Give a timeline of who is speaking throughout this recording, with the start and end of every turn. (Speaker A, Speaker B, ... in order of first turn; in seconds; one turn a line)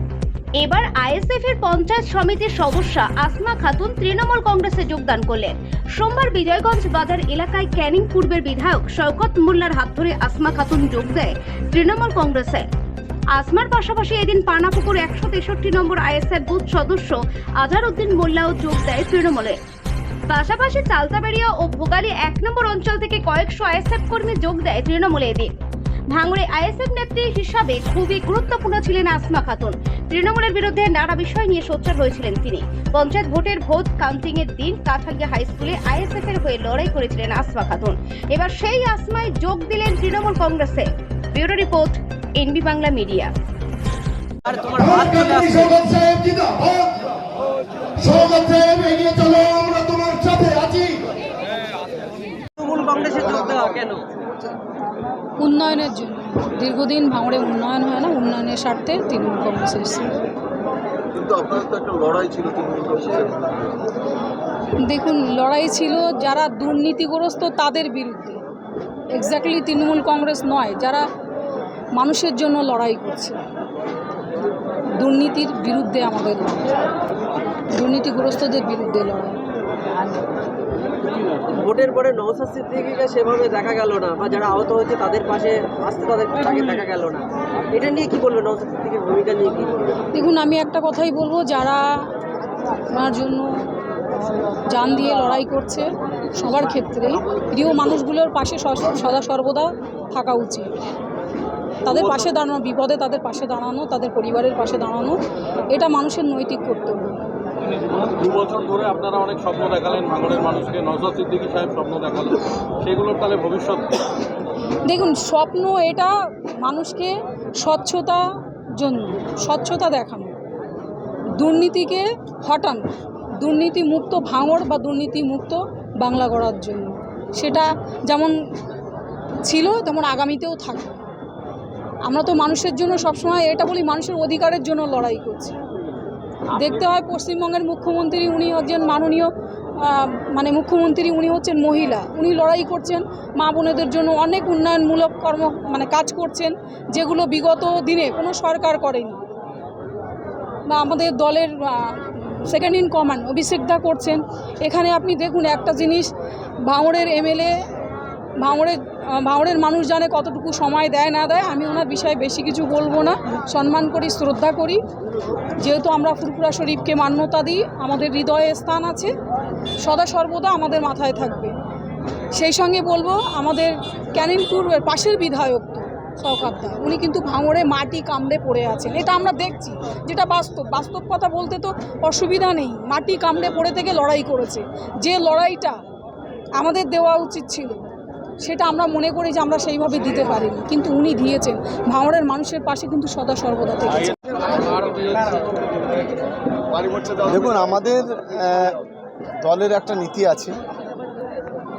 Speaker A: 0.6-12.7
Speaker A: 13.3-19.6
Speaker A: 20.3-25.5
Speaker A: 26.1-43.3
Speaker B: 44.5-45.8
Speaker C: 45.7-47.0
Speaker C: 48.0-51.0
Speaker B: 52.6-54.1
Speaker D: 55.4-60.1
Speaker C: 61.2-63.4
Speaker D: 64.8-68.4
Speaker D: 69.1-71.0
Speaker D: 72.0-73.4
Speaker D: 75.0-76.8
Speaker D: 77.7-79.4
Speaker B: 81.4-90.0
Speaker D: 90.1-91.8
Speaker D: 92.9-93.5
Speaker D: 94.7-100.7
Speaker D: 101.9-105.2
Speaker D: 105.7-107.2
Speaker E: 107.7-114.2
Speaker D: 114.8-116.1
Speaker D: 116.6-118.2
Speaker D: 118.7-120.3
Speaker D: 121.4-122.9
Speaker D: 123.4-128.4
Speaker D: 129.4-130.9
Speaker D: 132.1-135.6
Speaker D: 136.5-149.2
Speaker D: 150.7-156.1
Speaker D: 156.6-157.6
Speaker D: 158.4-164.8
Speaker D: 165.6-169.1
Speaker D: 169.8-171.5
Speaker D: 172.3-185.8
Speaker D: 186.6-187.9
Speaker D: 188.4-194.2
Speaker E: 194.5-195.5
Speaker F: 197.2-198.8
Speaker F: 199.4-200.6